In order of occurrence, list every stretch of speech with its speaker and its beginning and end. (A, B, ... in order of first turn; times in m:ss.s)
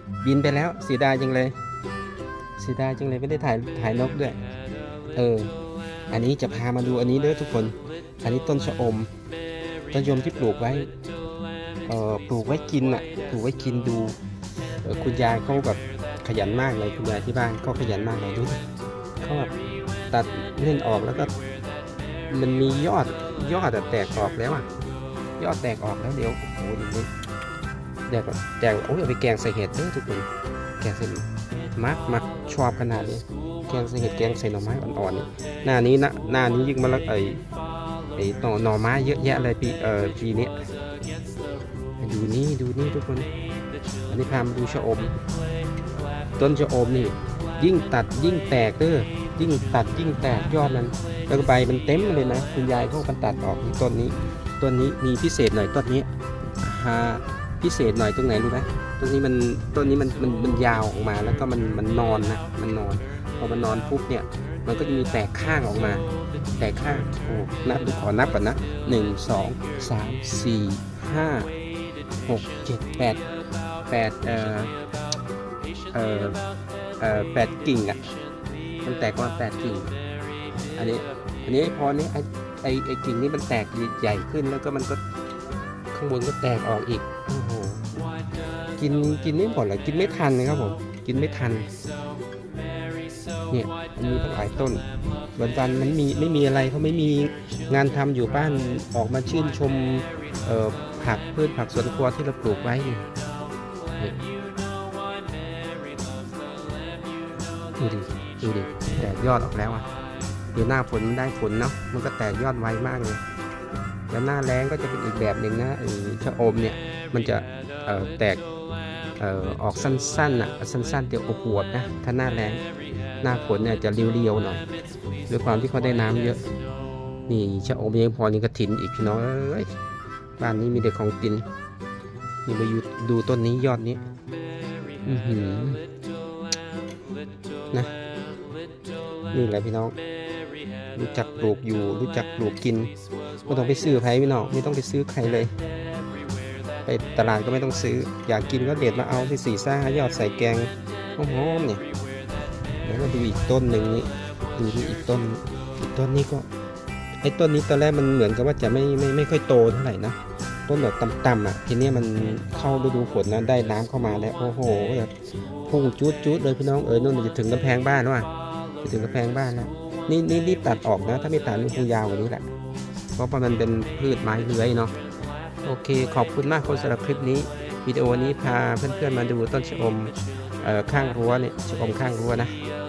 0:00.2-0:01.6 A
0:02.6-0:04.4 A
0:05.2-0:05.5 A
0:06.1-0:09.1 A
0:09.9-0:10.9 A
0:11.9-0:14.2 A
0:14.8-0:18.6 A
0:19.2-0:19.5 A
0:20.1-0:21.3 A
0:22.3-0:24.7 A
0:25.4-0:27.1 A
0:28.1-0:30.3 A
0:30.8-0:37.4 A
0:38.2-0:40.7 A
0:42.0-0:43.3 A
0:44.1-0:45.1 A
0:46.4-0:56.1 A
0:56.6-1:06.1 A
1:06.6-1:11.5 A
1:12.3-1:13.2 A
1:13.9-1:14.8 A
1:15.9-1:16.4 A
1:17.0-1:18.0 A
1:18.8-1:20.0 A
1:20.7-1:25.0 A
1:25.9-1:27.9 A
1:28.8-1:31.7 A
1:33.5-1:34.8 A
1:35.4-1:43.1 A
1:44.0-1:44.2 A
1:47.8-1:49.9 A
1:50.5-1:53.2 A
1:54.1-1:58.4 A
1:59.2-2:02.6 A
2:03.2-2:04.7 A
2:05.3-2:06.4 A
2:07.3-2:09.7 A
2:10.4-2:11.5 A
2:12.5-2:14.0 A
2:15.0-2:15.8 A
2:19.3-2:20.0 A
2:21.0-2:22.9 A
2:23.5-2:25.6 A
2:26.9-2:31.8 A
2:32.8-2:36.5 A
2:37.2-2:45.1 A
2:45.7-2:48.3 A
2:48.8-2:52.5 A
2:53.2-2:54.9 A
2:55.6-3:02.6 A